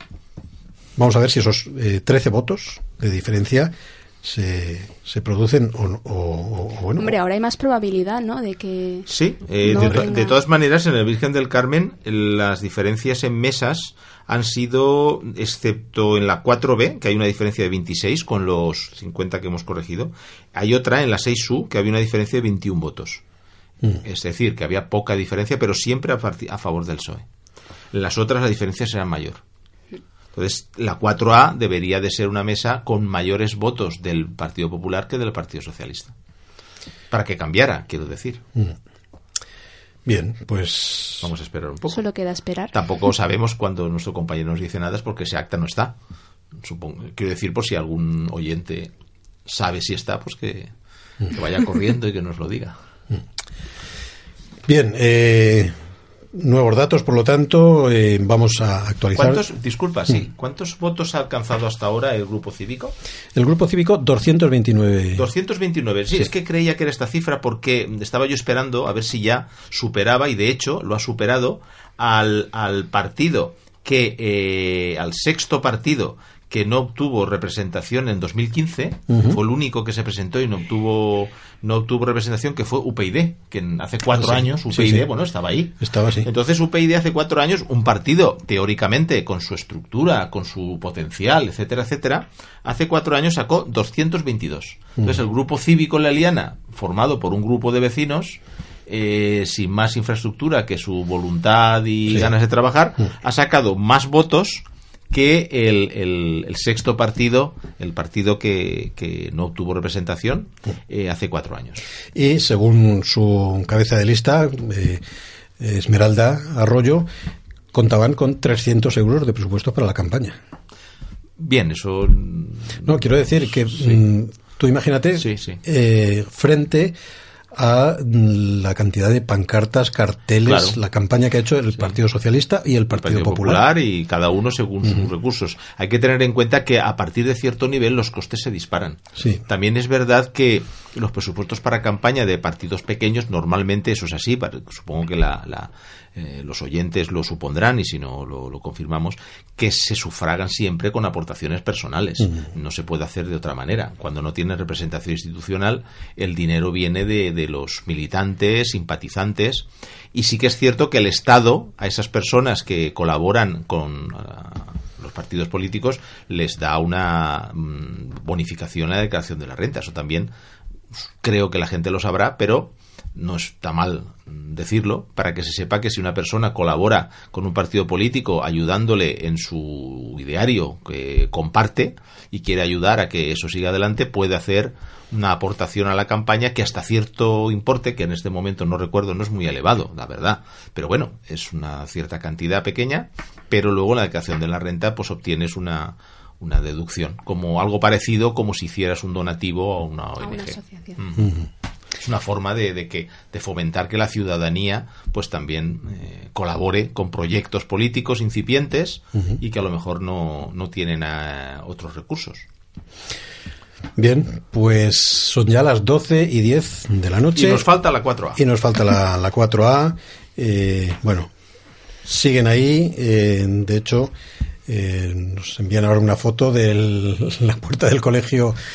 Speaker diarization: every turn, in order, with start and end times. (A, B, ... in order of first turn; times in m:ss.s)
0:01.0-0:07.1 A
0:07.0-0:09.1 B
0:09.1-0:23.2 C
0:09.6-0:10.3 B
0:09.7-0:10.0 A
0:24.0-0:27.2 C
0:27.9-0:29.4 C
0:30.3-0:36.1 C
0:37.1-0:38.4 C
0:40.1-0:41.3 A
0:41.2-0:42.0 C
0:41.9-0:42.7 B
0:42.7-0:46.0 C
0:46.6-0:48.9 C
0:49.5-0:50.7 C
0:51.3-0:52.8 C
0:54.7-0:55.8 A
0:56.4-0:59.4 A
0:59.2-1:03.0 C
1:03.4-1:05.3 A
1:05.2-1:51.8 C
1:19.1-1:19.4 A
1:24.1-1:25.1 A
1:25.8-1:26.3 A
1:52.2-1:55.0 A
1:55.6-1:57.1 A
1:57.7-2:00.4 A
2:01.4-2:04.0 C
2:02.8-2:07.0 A
2:05.2-2:05.6 C
2:07.5-2:13.6 A
2:10.4-2:10.8 C
2:12.9-2:50.3 C
2:19.2-2:19.4 A
2:51.0-3:21.3 C
3:20.2-3:21.0 B
3:21.2-3:21.5 A
3:22.0-3:32.5 C
3:34.0-3:37.7 A
3:37.4-3:38.4 C
3:38.4-3:41.3 A
3:42.1-3:44.1 A
3:44.7-3:48.6 A